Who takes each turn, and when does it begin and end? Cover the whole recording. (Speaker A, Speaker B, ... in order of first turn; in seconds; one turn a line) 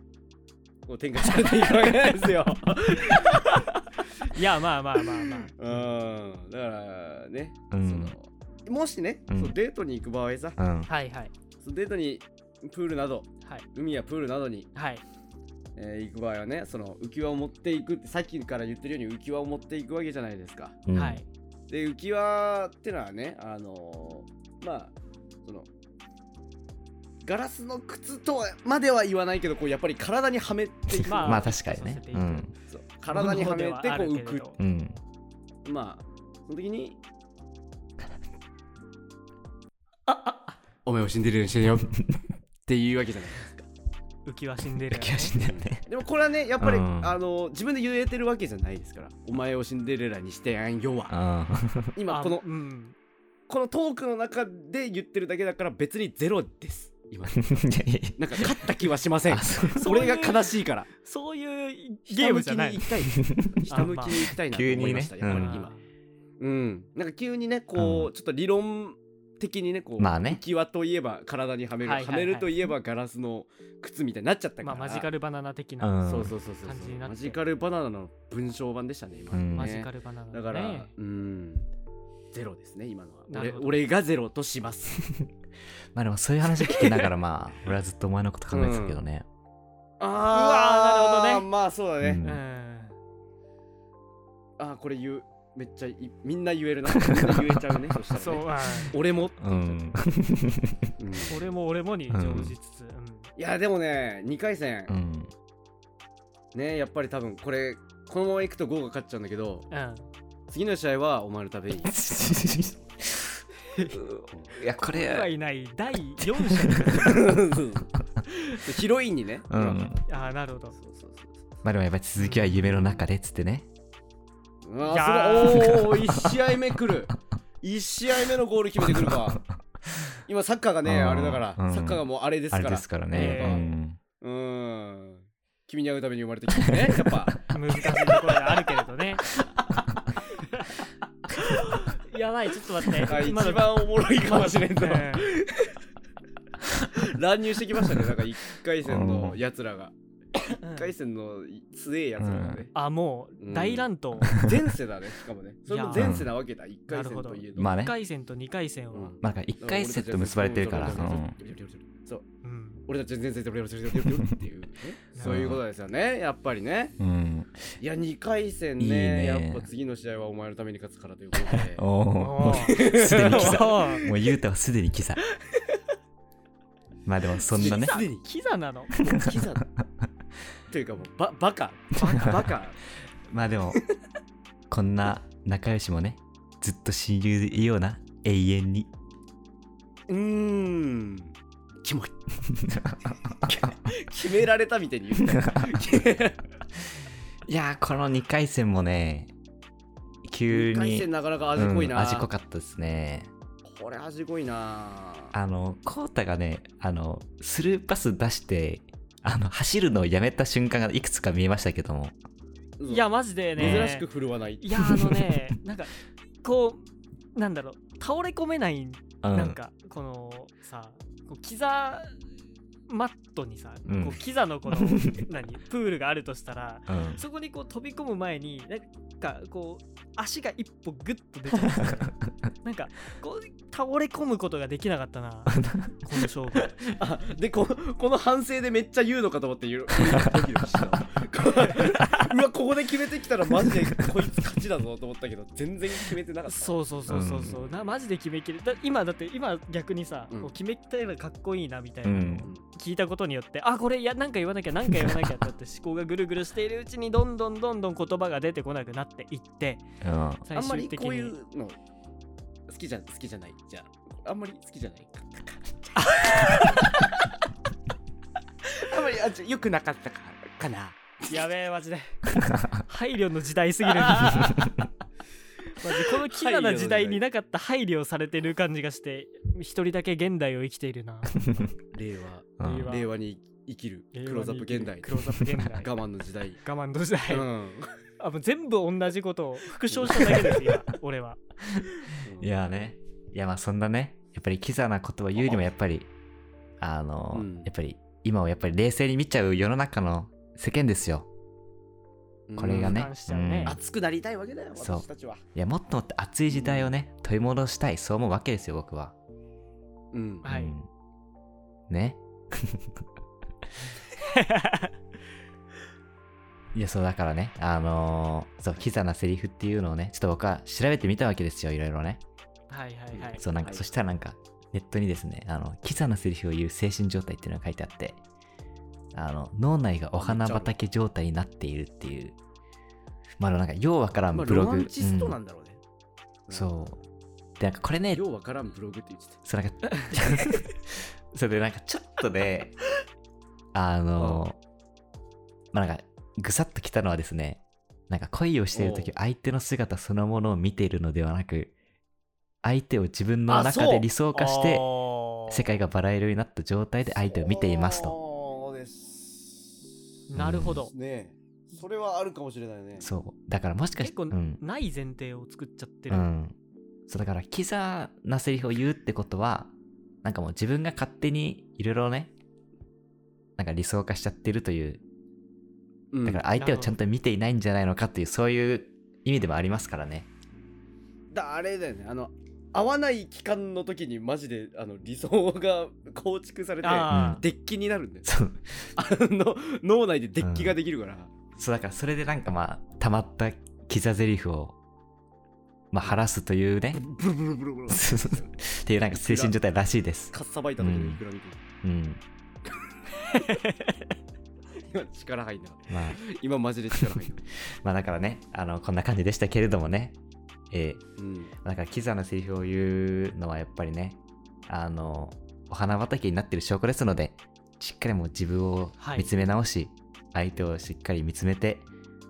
Speaker A: 0.8-4.3
Speaker B: 3.1-5.9
Speaker A: 5.0-10.6
Speaker C: 7.7-8.2
Speaker C: 9.3-9.6
Speaker C: 10.6-10.9
Speaker B: 10.9-11.3
Speaker A: 11.6-14.7
Speaker B: 14.8-15.0
Speaker A: 15.8-20.8
Speaker C: 20.9-21.2
Speaker B: 20.9-21.3
Speaker A: 21.7-25.7
Speaker A: 27.2-31.5
Speaker C: 30.9-32.5
Speaker B: 31.1-32.5
Speaker A: 32.7-34.5
Speaker B: 33.1-34.6
Speaker C: 34.6-35.0
Speaker A: 35.6-37.0
Speaker B: 40.1-40.6
Speaker A: 40.9-42.0
Speaker C: 41.9-42.2
Speaker A: 42.7-43.7
Speaker B: 44.3-45.4
Speaker C: 44.9-45.9
Speaker A: 45.4-51.1
Speaker C: 46.6-47.2
Speaker C: 51.1-52.0
Speaker A: 52.0-52.5
Speaker B: 52.1-53.0
Speaker A: 53.5-60.9
Speaker C: 57.3-58.7
Speaker C: 59.3-59.9
Speaker B: 59.8-63.0
Speaker A: 62.1-65.7
Speaker C: 63.1-65.6
Speaker B: 63.7-64.2
Speaker B: 65.3-65.8
Speaker A: 66.4-75.1
Speaker C: 67.8-68.1
Speaker C: 70.0-70.4
Speaker B: 71.8-72.5
Speaker B: 74.6-76.1
Speaker C: 75.8-76.3
Speaker A: 76.0-81.7
Speaker B: 76.6-77.4
Speaker C: 79.3-79.7
Speaker B: 79.5-80.9
Speaker A: 82.3-85.0
Speaker B: 83.3-83.8
Speaker C: 86.0-89.3
Speaker A: 86.5-87.1
Speaker A: 88.5-89.0
Speaker A: 90.0-92.2
Speaker B: 90.2-91.5
Speaker C: 92.0-92.4
Speaker B: 92.2-93.0
Speaker A: 94.6-99.9
Speaker C: 96.9-97.7
Speaker B: 98.1-99.0
Speaker C: 99.4-100.9
Speaker A: 101.0-101.5
Speaker B: 101.3-103.3
Speaker C: 102.1-102.5
Speaker A: 103.4-104.9
Speaker C: 104.9-105.3
Speaker A: 106.5-109.7
Speaker B: 109.7-110.1
Speaker A: 110.5-112.4
Speaker C: 111.8-113.4
Speaker B: 113.7-114.0
Speaker C: 113.9-115.3
Speaker B: 114.8-117.4
Speaker C: 116.2-117.1
Speaker A: 116.9-117.9
Speaker A: 118.5-120.0
Speaker C: 119.5-120.0
Speaker B: 120.1-120.8
Speaker A: 120.7-121.6
Speaker C: 121.6-123.7
Speaker B: 122.3-122.7
Speaker A: 124.6-129.4
Speaker B: 124.9-126.0
Speaker C: 125.7-126.3
Speaker C: 128.9-129.4
Speaker A: 130.3-133.7
Speaker C: 130.8-134.0
Speaker B: 133.1-133.8
Speaker A: 134.2-137.4
Speaker C: 136.7-137.2
Speaker B: 137.5-139.3
Speaker B: 140.4-140.7
Speaker B: 141.4-145.4
Speaker A: 143.0-145.8
Speaker A: 146.6-152.7
Speaker C: 148.8-149.4
Speaker B: 150.6-150.9
Speaker C: 152.2-152.7
Speaker B: 152.7-154.4
Speaker A: 153.4-157.8
Speaker C: 154.2-154.5
Speaker B: 155.7-156.3
Speaker C: 155.9-156.3
Speaker B: 156.9-159.2
Speaker C: 157.6-158.0
Speaker A: 158.9-162.3
Speaker C: 159.2-161.4
Speaker B: 162.4-162.8
Speaker A: 162.9-166.9
Speaker C: 164.0-164.4
Speaker B: 165.2-165.5
Speaker C: 165.2-165.6
Speaker C: 167.0-167.7
Speaker A: 167.8-171.9
Speaker C: 168.8-169.7
Speaker C: 171.4-175.2
Speaker B: 172.2-174.1
Speaker A: 172.5-174.2
Speaker A: 175.3-175.8
Speaker C: 177.1-178.0
Speaker B: 177.5-178.9
Speaker A: 177.5-178.3
Speaker A: 179.0-179.7
Speaker C: 179.1-179.8
Speaker A: 180.7-182.8
Speaker B: 182.0-182.5
Speaker C: 183.3-183.8
Speaker C: 184.7-188.9
Speaker A: 190.1-192.1
Speaker C: 192.5-194.0
Speaker A: 193.4-196.4
Speaker C: 195.2-195.8
Speaker C: 197.5-199.3
Speaker C: 200.2-203.3
Speaker A: 200.5-202.3
Speaker A: 203.7-205.3
Speaker C: 205.3-212.2
Speaker A: 212.8-214.7
Speaker B: 212.9-214.1
Speaker C: 213.6-213.9
Speaker B: 214.6-215.9
Speaker C: 214.8-215.4
Speaker B: 216.4-222.1
Speaker C: 219.2-219.6
Speaker B: 222.9-236.8
Speaker C: 223.9-224.2
Speaker C: 224.7-225.2
Speaker C: 226.9-227.2
Speaker C: 235.5-236.0
Speaker A: 236.9-246.8
Speaker B: 241.7-242.3
Speaker B: 246.5-259.8
Speaker C: 247.1-247.6
Speaker C: 252.0-252.5
Speaker C: 260.0-260.4
Speaker B: 260.4-261.3
Speaker A: 260.5-261.8
Speaker A: 262.7-267.1
Speaker B: 266.0-266.9
Speaker A: 268.6-271.5
Speaker B: 271.3-274.8
Speaker C: 272.4-272.8
Speaker A: 273.9-274.6
Speaker B: 275.8-281.7
Speaker A: 275.8-277.2
Speaker C: 281.4-281.7
Speaker A: 281.9-286.6
Speaker C: 282.6-283.0
Speaker B: 282.6-283.1
Speaker B: 284.1-285.9
Speaker B: 286.6-287.5
Speaker A: 287.3-288.0
Speaker B: 288.2-291.4
Speaker A: 289.9-290.5
Speaker C: 291.7-296.1
Speaker A: 292.2-292.5
Speaker A: 295.4-295.6
Speaker C: 296.8-301.3
Speaker A: 297.3-297.7
Speaker A: 302.5-303.1
Speaker C: 302.6-303.8
Speaker B: 302.7-303.8
Speaker A: 303.6-305.4
Speaker C: 304.8-309.1
Speaker A: 306.5-306.9
Speaker A: 310.1-310.5
Speaker B: 310.4-310.8
Speaker C: 310.5-310.9
Speaker C: 311.9-312.9
Speaker B: 314.2-314.9
Speaker C: 316.7-322.2
Speaker B: 322.7-323.4
Speaker A: 323.1-323.9
Speaker C: 323.4-328.2
Speaker C: 329.1-332.4
Speaker A: 330.2-330.8
Speaker C: 333.4-335.4
Speaker A: 334.3-335.8
Speaker C: 336.5-337.0
Speaker C: 337.6-338.2
Speaker A: 338.1-339.4
Speaker C: 339.4-342.8
Speaker B: 340.1-340.4
Speaker C: 343.7-344.6
Speaker A: 344.2-344.4
Speaker C: 345.7-351.7
Speaker A: 348.7-349.1
Speaker C: 352.6-354.9
Speaker A: 353.5-354.1
Speaker B: 354.3-355.7
Speaker C: 355.5-358.2
Speaker A: 357.1-360.0
Speaker B: 360.3-360.9
Speaker C: 360.4-360.8
Speaker A: 360.6-363.1
Speaker C: 363.0-364.6
Speaker B: 364.0-366.3
Speaker C: 366.1-366.6
Speaker C: 367.1-369.7
Speaker C: 370.2-372.3
Speaker C: 373.6-375.0
Speaker A: 376.1-376.5
Speaker C: 376.2-380.3
Speaker B: 376.6-377.0
Speaker A: 381.3-388.3
Speaker B: 386.8-387.4
Speaker C: 387.1-387.4
Speaker C: 388.2-388.9
Speaker A: 388.9-391.3
Speaker C: 390.4-390.8
Speaker C: 391.6-394.8
Speaker C: 395.9-397.1
Speaker A: 396.9-398.5
Speaker C: 397.9-401.2
Speaker A: 399.1-399.6
Speaker A: 400.3-401.6
Speaker C: 401.8-402.2
Speaker B: 403.3-403.9
Speaker A: 404.8-407.4
Speaker C: 405.9-406.2
Speaker C: 407.5-410.2
Speaker C: 410.7-411.0
Speaker A: 411.2-411.5
Speaker C: 411.6-421.9
Speaker B: 419.0-419.3